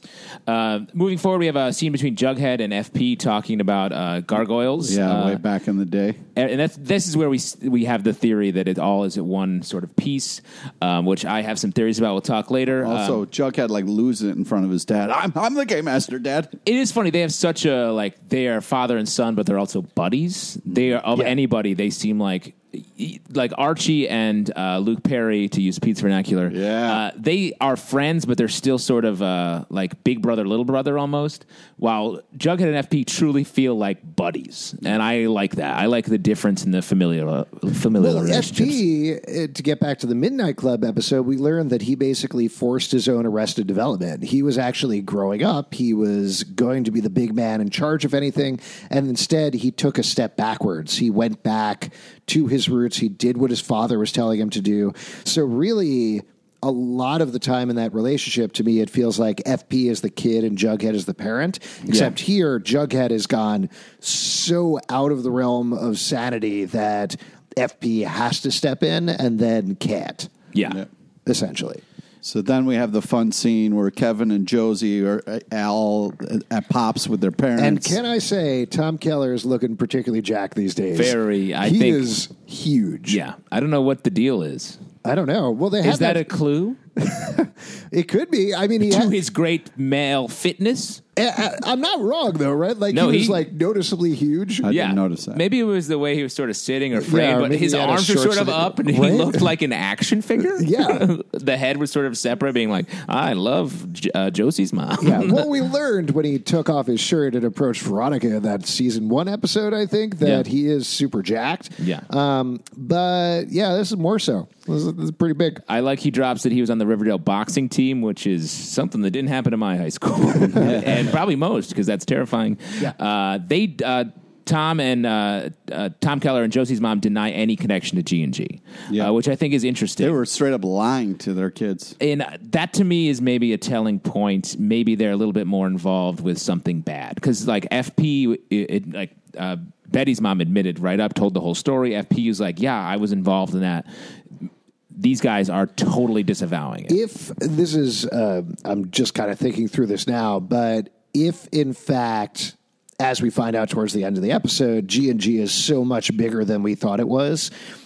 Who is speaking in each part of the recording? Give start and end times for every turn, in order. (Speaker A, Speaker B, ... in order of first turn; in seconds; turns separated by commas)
Speaker A: 0.5-5.4, Speaker B: 4.9-6.2, Speaker A: 6.3-13.2, Speaker B: 12.8-16.5, Speaker A: 16.6-38.8, Speaker B: 26.5-27.0, Speaker C: 38.0-70.3, Speaker A: 61.9-62.1, Speaker A: 70.5-70.8, Speaker C: 71.2-71.8, Speaker B: 72.2-78.0, Speaker C: 77.6-83.2, Speaker A: 80.9-82.1, Speaker A: 83.1-84.8, Speaker C: 85.0-86.3, Speaker A: 85.8-86.8, Speaker C: 87.0-89.1, Speaker A: 88.8-91.0, Speaker C: 91.2-94.7, Speaker A: 92.9-93.4, Speaker B: 94.6-95.4, Speaker A: 94.7-105.5, Speaker C: 97.0-99.5, Speaker C: 100.5-101.1, Speaker C: 105.0-115.6, Speaker A: 111.8-112.0, Speaker A: 115.7-130.2, Speaker B: 130.0-132.0, Speaker A: 132.0-143.9, Speaker A: 144.9-147.0, Speaker C: 146.9-157.5